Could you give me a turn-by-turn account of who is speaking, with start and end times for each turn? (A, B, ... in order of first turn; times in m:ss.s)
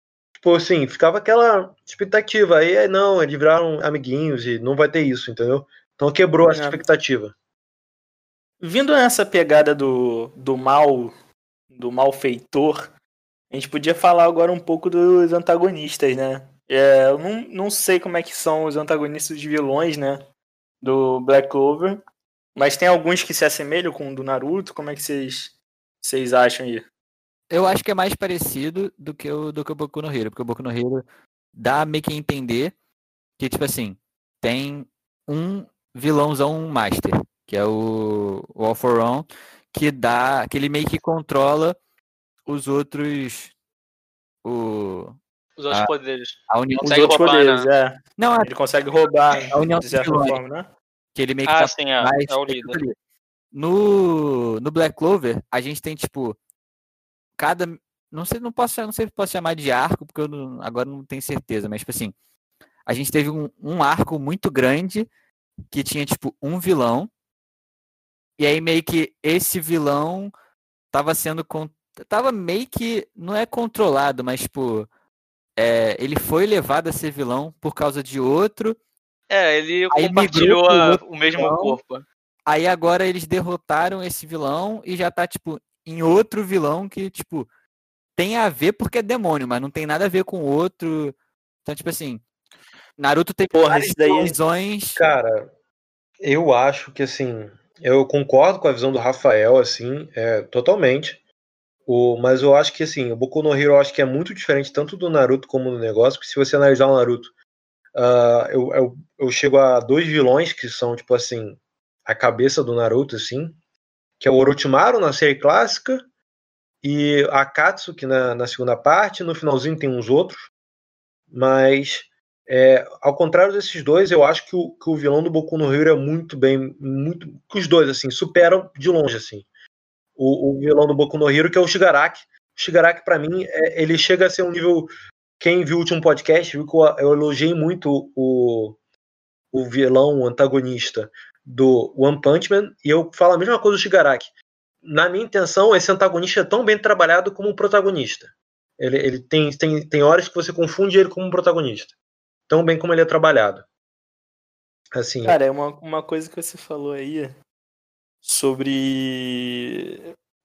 0:00.4-0:07.3 A
0:06.5-0:06.8 B
0:08.6-0:11.1 B
0:11.7-0:12.9 B
0:13.5-0:20.3 B
0:20.8-0:22.0 B
0:22.6-0:26.9 B
0:27.5-0:32.7 C
0:33.4-0:41.8 C
0:42.5-0:43.5 C
0:44.4-0:45.2 C
0:45.6-0:47.7 D
0:46.5-0:46.9 C
0:46.8-0:50.7 B
0:48.2-0:48.5 C
0:49.5-0:50.4 C
0:51.2-0:53.0 C
0:51.5-0:52.8 D
0:53.5-0:56.4 C
0:57.4-1:02.1 C
1:02.9-1:05.1 C
1:05.7-1:07.1 C
1:08.4-1:10.3 C
1:10.9-1:14.9 C
1:15.6-1:18.8 C
1:19.3-1:22.0 D
1:19.9-1:21.5 C
1:22.5-1:27.5 C
1:28.2-1:32.2 C
1:33.0-1:35.1 C
1:33.5-1:34.4 B
1:35.0-1:35.5 A
1:36.2-1:41.2 A
1:41.9-1:47.3 A
1:48.0-1:53.6 A
1:54.2-1:56.0 A
1:56.8-2:00.5 A
2:01.3-2:09.5 A
2:10.2-2:18.8 A
2:19.5-2:24.3 A
2:24.8-2:31.9 A
2:32.5-2:33.6 A
2:34.9-2:35.4 A
2:35.2-2:37.4 B
2:38.2-2:40.0 B